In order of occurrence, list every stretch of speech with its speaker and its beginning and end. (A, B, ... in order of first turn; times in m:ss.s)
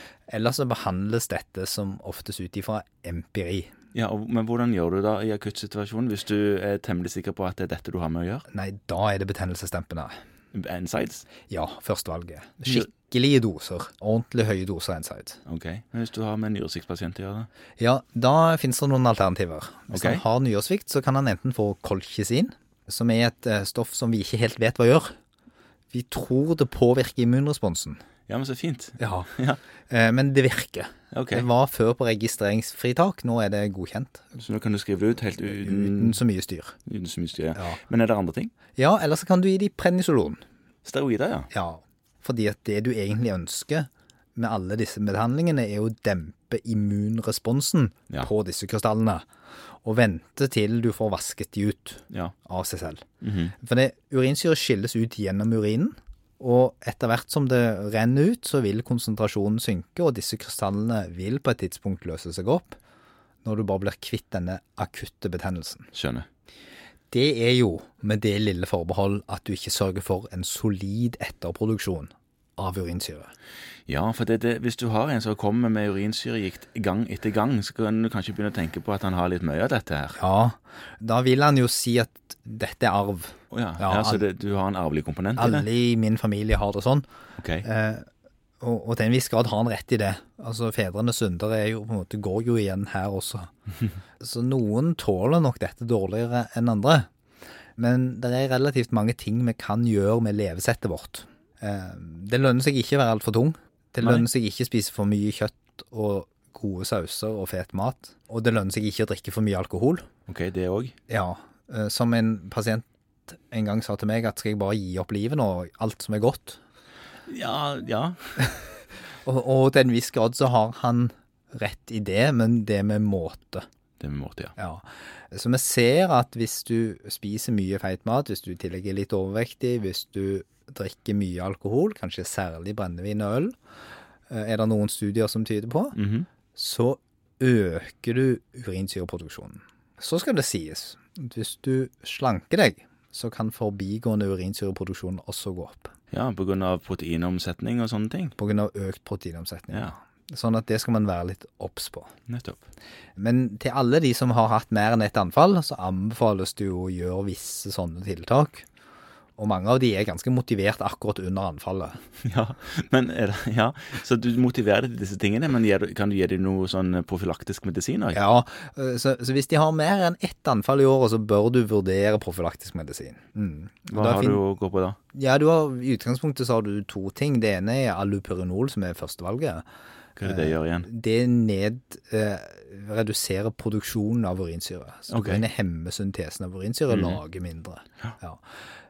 0:00.3-0:03.7 A
0:03.9-0:08.4 B
0:08.5-0:10.1 A
0:10.5-0:11.3 B
0:11.5-0:15.4 A
0:15.4-0:17.5 B
0:17.8-0:25.1 A
0:19.9-0:20.2 B
0:25.9-0:28.0 A
0:28.3-0:29.6 B
0:29.0-0:29.3 A
0:29.9-0:34.4 A
0:31.1-0:31.5 B
0:34.4-0:36.2 B
0:35.5-0:36.8 A
0:36.8-0:38.5 B
0:38.8-0:40.4 A
0:40.8-0:41.5 B
0:41.5-0:49.2 A
0:49.8-0:53.0 A
0:53.2-0:53.5 B
0:53.6-1:02.8 A
1:03.4-1:05.9 A
1:05.9-1:06.2 B
1:07.1-1:13.3 A
1:13.9-1:20.2 B
1:20.2-1:24.2 A
1:23.5-1:25.7 B
1:25.4-1:27.0 A
1:27.4-1:27.7 B
1:27.6-1:28.0 A
1:28.6-1:33.5 A
1:34.2-1:37.1 A
1:37.8-1:50.1 A
1:44.0-1:44.3 B
1:50.3-1:50.9 B
1:51.1-1:56.6 A
1:57.3-1:58.5 B
1:59.2-2:03.7 A
2:04.0-2:04.5 B
2:04.6-2:13.5 A
2:14.3-2:16.0 A
2:15.9-2:16.3 B
2:16.5-2:25.9 A
2:26.1-2:28.3 B
2:28.4-2:32.1 A
2:32.3-2:32.6 B
2:33.2-2:38.7 A
2:39.4-2:42.0 A
2:42.2-2:48.2 B
2:48.1-2:54.4 A
2:53.9-2:55.0 B
2:55.1-2:59.6 A
3:00.2-3:00.9 B
3:00.2-3:08.4 A
3:05.1-3:05.4 B
3:06.9-3:07.2 B